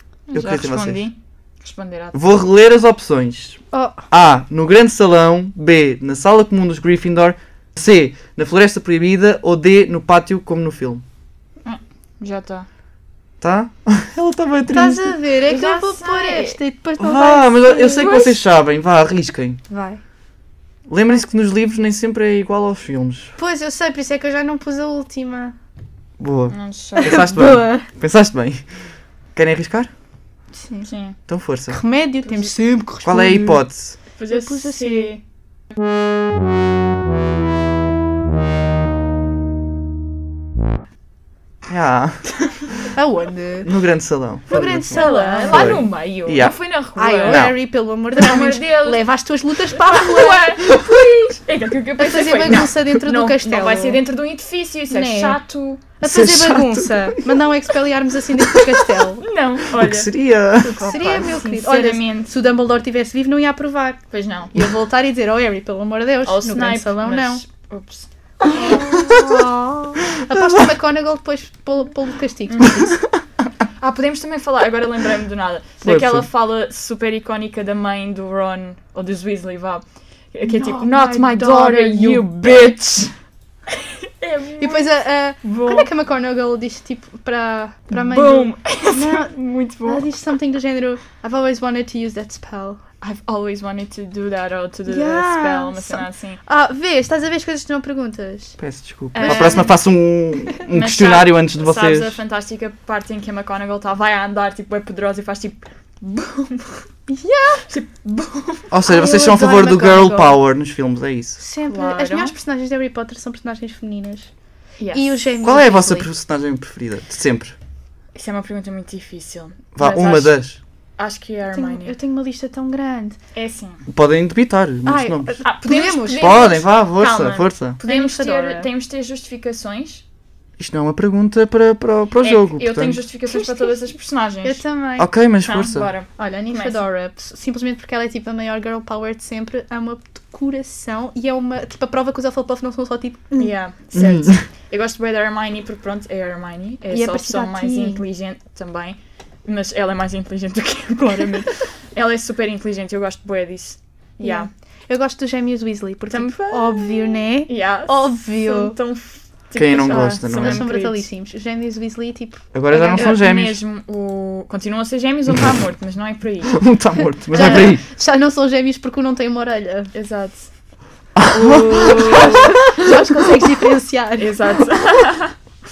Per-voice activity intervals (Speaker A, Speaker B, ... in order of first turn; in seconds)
Speaker A: 0.3-2.2, 11.6-12.7, 15.5-16.6, 18.0-18.3, 26.5-27.2, 30.9-31.2, 34.2-35.2, 44.9-47.5, 48.1-49.0, 49.8-55.8, 59.2-62.3, 64.1-64.5, 66.2-68.1, 73.8-83.1, 84.2-84.9, 85.4-85.9, 87.9-90.1, 93.0-96.4, 99.2-99.7, 100.7-106.9, 107.7-108.7, 111.7-112.3, 114.8-115.3, 118.2-120.4, 121.0-122.0, 123.3-123.8, 125.4-130.0, 132.2-134.6, 135.4-136.8, 143.4-154.5, 156.1-161.1, 162.7-166.6, 167.3-167.7, 169.9-170.5, 171.4-172.6, 174.2-175.3
Speaker B: 0.3-1.1, 2.1-11.0, 13.4-15.2, 17.0-19.6, 20.9-23.4, 26.2-28.7, 29.4-29.9, 31.3-31.8, 33.0-34.0, 41.7-42.3, 43.6-46.6, 47.2-47.6, 56.0-57.2, 59.7-61.0, 70.3-70.7, 75.8-76.3, 98.6-102.2, 108.7-111.4, 115.4-117.6, 119.8-120.6, 123.9-125.4, 126.2-127.8, 130.6-133.0, 135.0-135.9, 143.9-144.4, 159.5-160.7, 162.5-163.6, 166.5-167.8, 171.2-172.4
Speaker C: 3.7-4.0, 14.7-18.3, 19.7-20.0, 23.4-25.6, 27.0-27.9, 30.5-30.9, 31.7-35.2, 43.0-43.7, 44.5-45.9, 47.0-50.8, 52.0-54.0, 54.9-55.4, 56.0-59.2, 60.8-64.0, 64.5-67.4, 68.4-73.0, 80.4-82.8, 84.6-92.8, 94.9-98.6, 99.2-99.7, 107.1-107.7, 108.8-110.4, 111.4-114.3, 114.9-116.1, 121.5-123.2, 124.8-126.6, 127.8-128.7, 133.3-133.9, 134.4-135.1, 136.2-143.5, 146.9-148.0, 154.2-158.8, 160.4-163.2, 167.3-169.9, 171.4-174.6